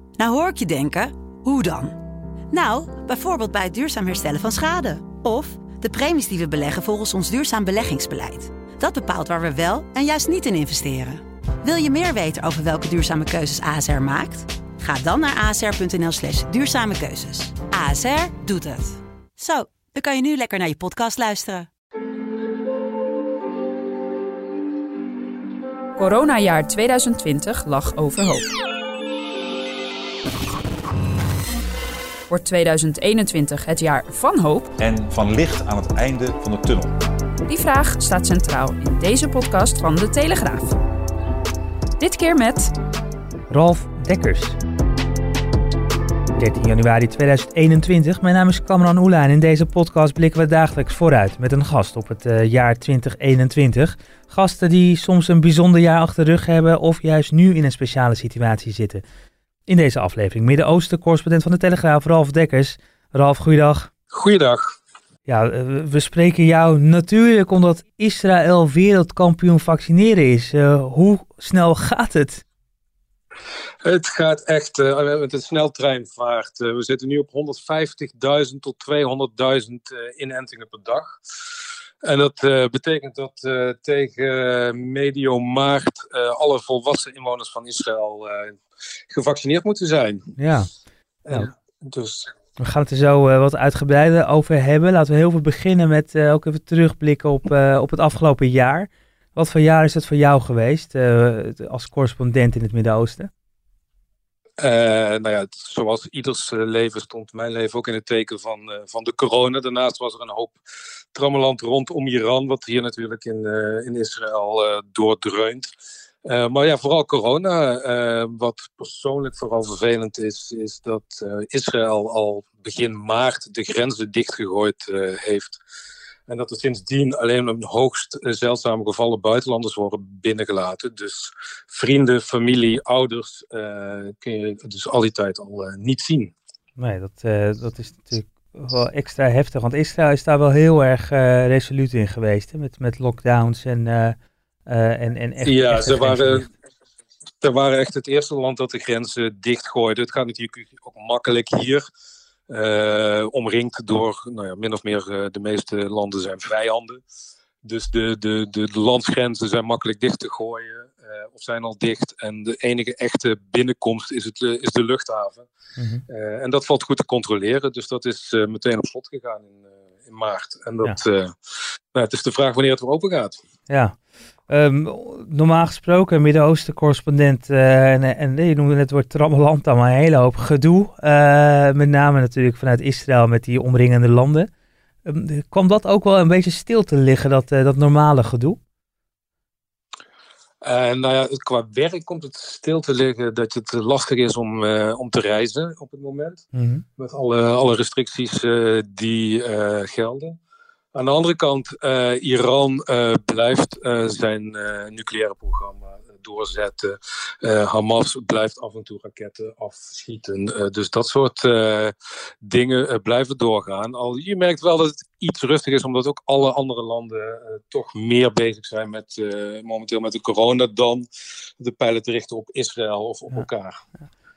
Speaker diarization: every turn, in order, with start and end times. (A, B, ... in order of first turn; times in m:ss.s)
0:00.2-0:02.0 A
0:02.5-0:21.7 A
0:26.0-0:28.5 B
0:32.3-0:34.7 B
0:34.8-0:36.9 C
0:37.5-0:40.8 B
0:42.0-0:42.7 B
0:43.5-0:44.6 D
0:46.4-0:59.0 D
0:59.7-1:03.9 D
1:04.1-1:04.7 E
1:05.3-1:12.4 D
1:13.8-1:21.2 E
1:22.0-1:30.4 E
1:30.4-1:30.7 D
1:31.2-1:32.3 E
1:32.6-1:43.3 D
1:44.6-1:50.6 E
1:51.1-1:55.7 E
1:56.2-2:05.6 E
2:06.3-2:16.3 E
2:16.8-2:24.2 D
2:24.7-2:26.5 D
2:25.4-2:26.5 E
2:27.4-2:31.8 E
2:32.5-2:37.0 E
2:37.6-2:45.5 E
2:45.8-2:46.0 D
2:46.1-2:51.4 E
2:51.9-2:53.4 E
2:53.7-2:54.0 D
2:54.5-3:04.5 D
3:05.1-3:08.6 D
3:10.6-3:16.4 E
3:16.5-3:16.8 D
3:17.0-3:20.4 E
3:20.9-3:41.1 E
3:41.6-3:43.8 E